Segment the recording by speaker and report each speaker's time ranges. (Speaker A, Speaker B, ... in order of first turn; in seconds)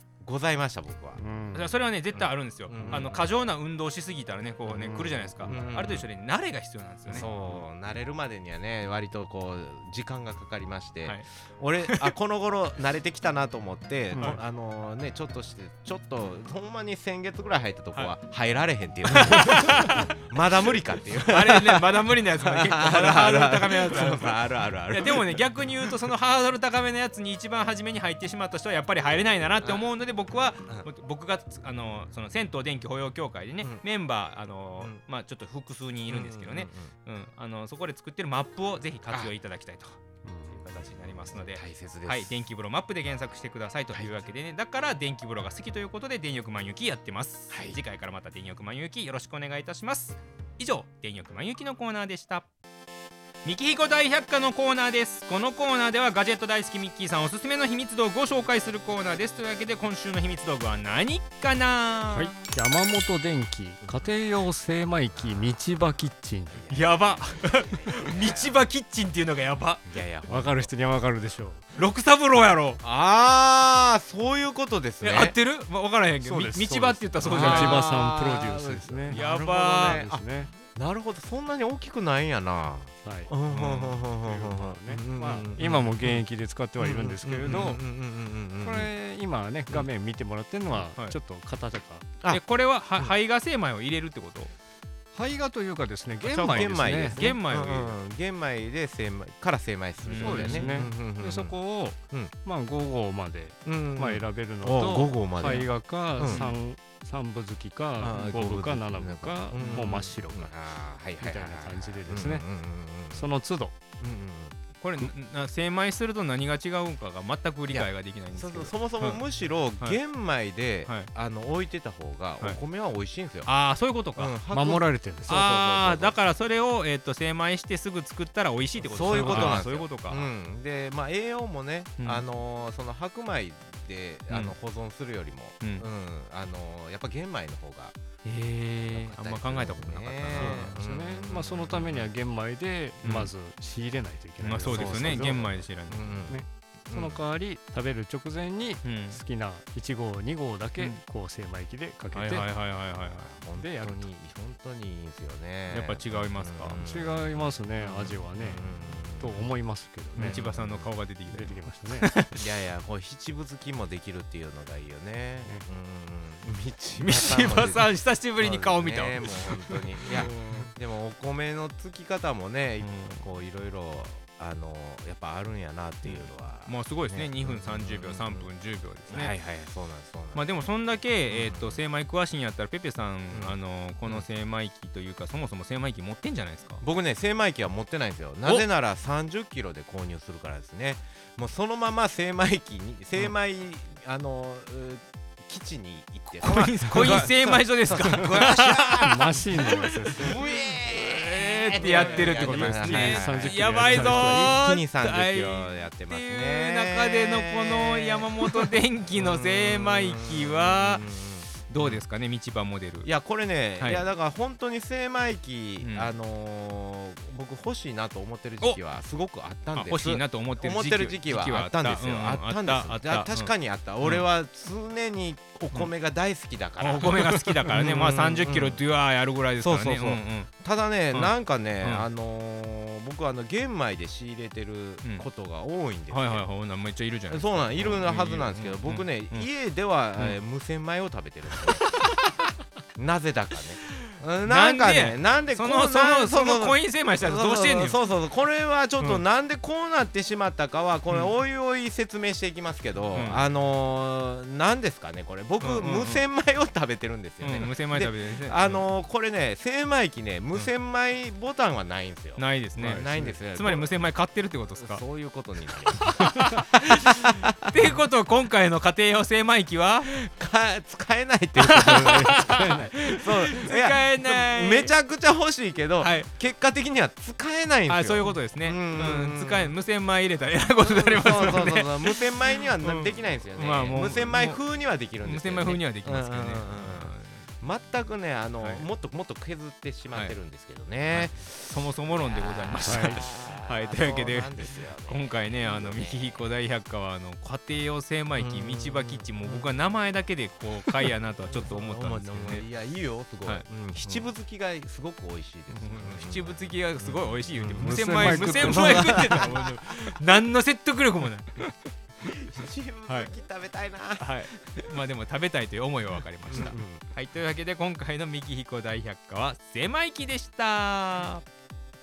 Speaker A: 0.2-1.2, 2.1-3.3, 5.4-6.0, 7.1-25.9, 29.6-29.9, 36.1-36.9, 39.1-39.3, 41.3-42.4, 43.9-44.2, 47.5-47.8, 66.5-68.7, 69.8-70.7, 72.8-75.3, 77.2-86.2, 86.8-88.9, 96.4-101.6, 103.6-106.5, 108.0-113.3, 114.0-114.5, 117.7-123.5, 124.2-126.2, 128.8-138.0, 138.9-142.1, 144.7-147.2, 152.4-159.5, 160.1-160.9, 162.3-178.5, 179.1-180.5, 181.3-181.8, 183.3-184.2, 186.8-199.6, 200.2-212.0, 213.0-228.8, 229.6-236.5, 237.3-241.9, 242.9-263.9, 264.8-266.6, 270.1-279.7, 280.8-296.5, 298.4-299.7, 300.8-309.7, 312.2-314.9, 316.5-317.1
Speaker B: 1.2-1.7, 4.7-5.6, 14.1-14.4, 40.2-40.6, 62.1-66.8, 70.3-71.6, 76.2-79.2, 79.8-80.5, 83.0-83.3, 84.1-87.8, 88.6-92.1, 95.1-97.4, 100.1-110.5, 111.2-112.5, 113.1-113.7, 124.5-125.3, 129.0-129.6, 140.3-145.6, 146.3-152.5, 153.6-154.1, 156.8-160.5, 161.3-162.1, 199.0-200.4, 201.7-204.6, 262.8-263.3, 272.5-273.0, 292.8-293.2, 307.8-309.5
Speaker C: 1.5-7.6, 11.8-12.1, 19.1-20.1, 21.3-52.5, 53.4-62.3, 66.7-69.8, 71.7-72.8, 75.0-77.9, 79.1-80.0, 83.5-84.0, 87.4-87.8, 90.7-91.2, 92.3-94.5, 96.2-98.0, 100.0-100.7, 106.2-106.5, 114.8-119.2, 123.4-124.3, 125.3-130.3, 132.0-132.2, 134.3-134.5, 135.6-135.9, 138.2-140.8, 143.0-143.3, 144.4-146.2, 148.8-149.2, 152.1-153.3, 155.7-156.8, 160.2-162.4, 167.0-170.7, 172.8-173.3, 176.0-179.3, 180.3-186.8, 196.4-211.0, 211.6-213.1, 213.8-214.1, 215.8-216.1, 219.7-224.3, 226.8-230.5, 231.1-232.1, 236.1-239.5, 241.9-242.2, 244.4-248.0, 253.1-253.4, 255.6-256.2, 257.4-258.9, 262.4-265.0, 266.0-270.1, 271.6-274.9, 276.0-276.3, 277.9-284.6, 285.2-287.5, 288.6-288.9, 291.1-302.6, 303.4-304.3, 305.7-311.7, 314.2-321.4